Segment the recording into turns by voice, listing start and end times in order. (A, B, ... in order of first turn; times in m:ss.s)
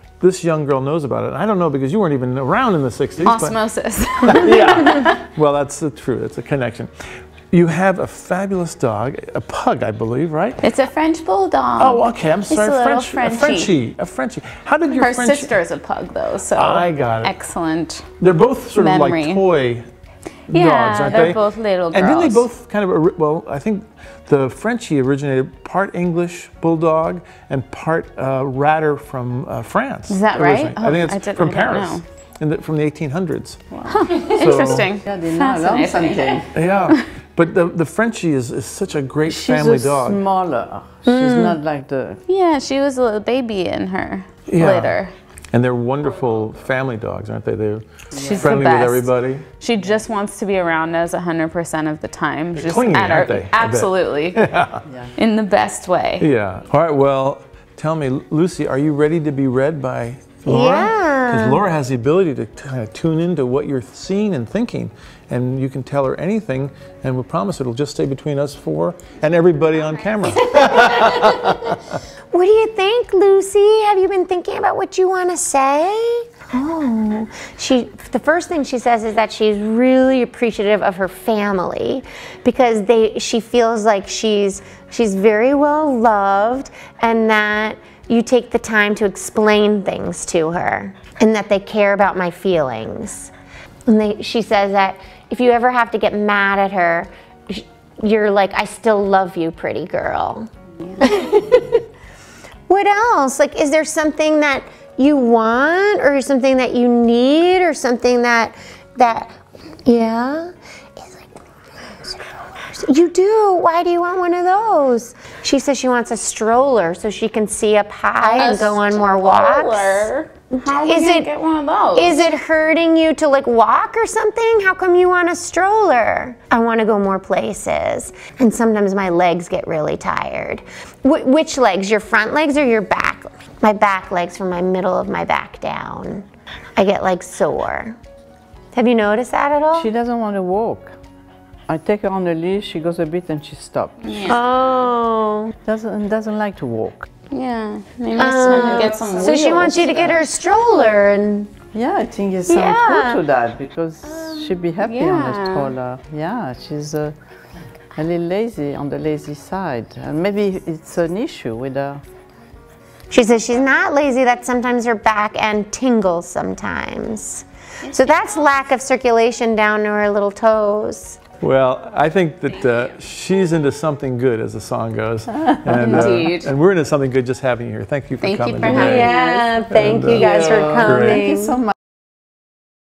0:00.2-0:03.6 A
0:03.2-0:05.2 B
0:04.2-0:06.9 A
0:07.5-0:10.7 A
0:10.6-0:13.8 B
0:11.8-0:15.6 A
0:14.9-0:18.2 B
0:16.5-0:17.3 A
0:18.2-0:19.9 A
0:18.7-0:19.4 B
0:20.5-0:33.7 A
0:20.5-0:22.5 B
0:30.1-0:32.0 B
0:33.8-0:36.5 C
0:33.9-0:37.0 B
0:34.3-0:34.9 A
0:36.5-0:40.2 A
0:39.3-0:42.2 C
0:41.1-0:41.6 D
0:42.3-0:45.1 B
0:44.5-0:45.0 A
0:45.5-0:47.9 A
0:48.1-0:48.6 C
0:48.2-0:54.4 B
0:48.4-0:49.4 A
0:52.6-0:54.8 A
0:54.9-0:55.1 C
0:55.2-0:56.3 B
0:56.2-1:12.0 A
1:00.5-1:01.6 D
1:12.3-1:33.3 D
1:33.9-1:41.8 D
1:42.7-1:49.4 D
1:49.9-1:51.3 D
1:51.9-2:00.1 D
1:58.3-2:02.2 B
2:00.7-2:01.3 D
2:02.0-2:18.0 D
2:18.7-2:19.9 D
2:19.7-2:21.0 C
2:21.7-2:24.2 C
2:24.0-2:24.4 B
2:24.2-2:25.5 D
2:25.6-2:27.1 C
2:27.3-2:30.1 B
2:28.2-2:31.5 D
2:31.7-2:37.2 C
2:32.5-2:33.2 D
2:34.8-2:35.8 B
2:38.0-2:42.0 C
2:43.1-2:51.2 D
2:47.9-2:48.5 B
2:51.4-3:01.3 A
2:52.5-2:53.0 B
2:55.5-2:56.1 C
2:55.7-2:56.5 B
2:58.2-2:59.4 B
2:58.7-3:01.6 D